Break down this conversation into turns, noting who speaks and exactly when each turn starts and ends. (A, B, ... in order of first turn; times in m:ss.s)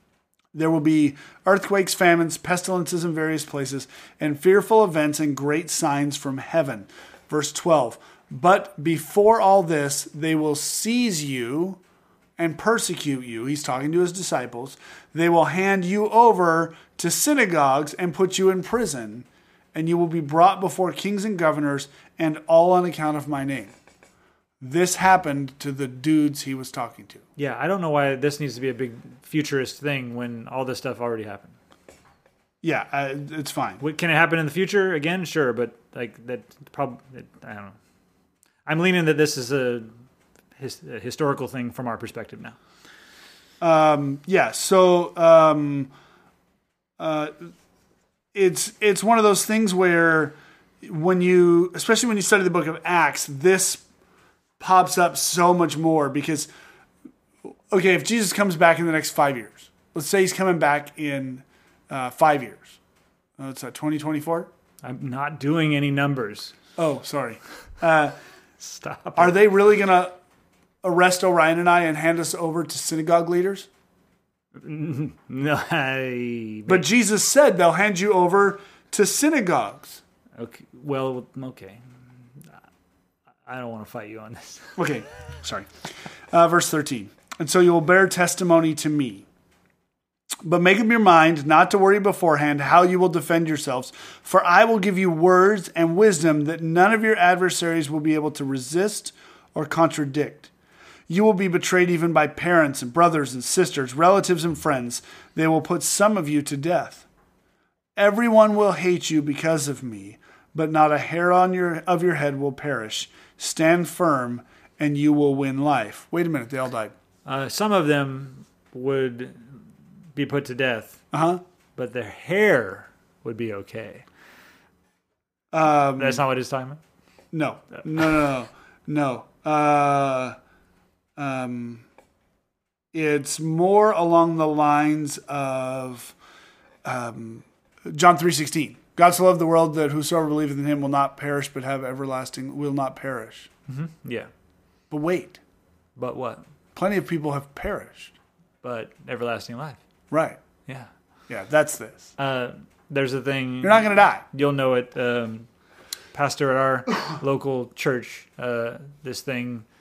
0:00.5-0:11.8 A
0:12.4-0:23.8 A
0:24.6-0:27.2 A
0:27.4-0:31.6 B
0:32.6-0:33.8 A
0:33.8-0:37.8 B
0:38.7-0:39.9 B
0:40.6-0:42.6 B
0:43.6-0:45.9 A
0:47.0-0:47.5 A
0:48.3-0:53.8 A
0:54.6-0:56.5 A
0:57.7-1:02.8 A
1:03.4-1:04.5 A
1:04.8-1:06.5 B
1:06.8-1:08.2 A
1:08.6-1:09.3 B
1:09.2-1:10.2 A
1:10.8-1:13.7 A
1:14.6-1:16.9 B
1:16.7-1:20.0 A
1:20.4-1:21.8 B
1:23.4-1:24.8 B
1:24.8-1:25.7 A
1:26.3-1:29.3 A
1:30.4-1:40.5 A
1:41.1-1:47.1 A
1:48.0-1:56.9 A
1:57.3-1:59.6 B
2:00.2-2:01.0 B
2:01.1-2:01.4 A
2:01.8-2:04.1 B
2:05.5-2:06.2 A
2:06.0-2:06.8 B
2:07.3-2:10.4 A
2:11.2-2:11.8 A
2:12.9-2:16.2 A
2:16.8-2:23.5 A
2:23.7-2:24.3 B
2:24.9-2:25.4 A
2:26.0-2:26.4 B
2:26.8-2:28.1 A
2:28.6-2:29.8 B
2:30.1-2:30.4 A
2:31.3-2:32.1 A
2:32.2-2:35.5 B
2:33.6-2:34.2 A
2:36.1-2:39.6 B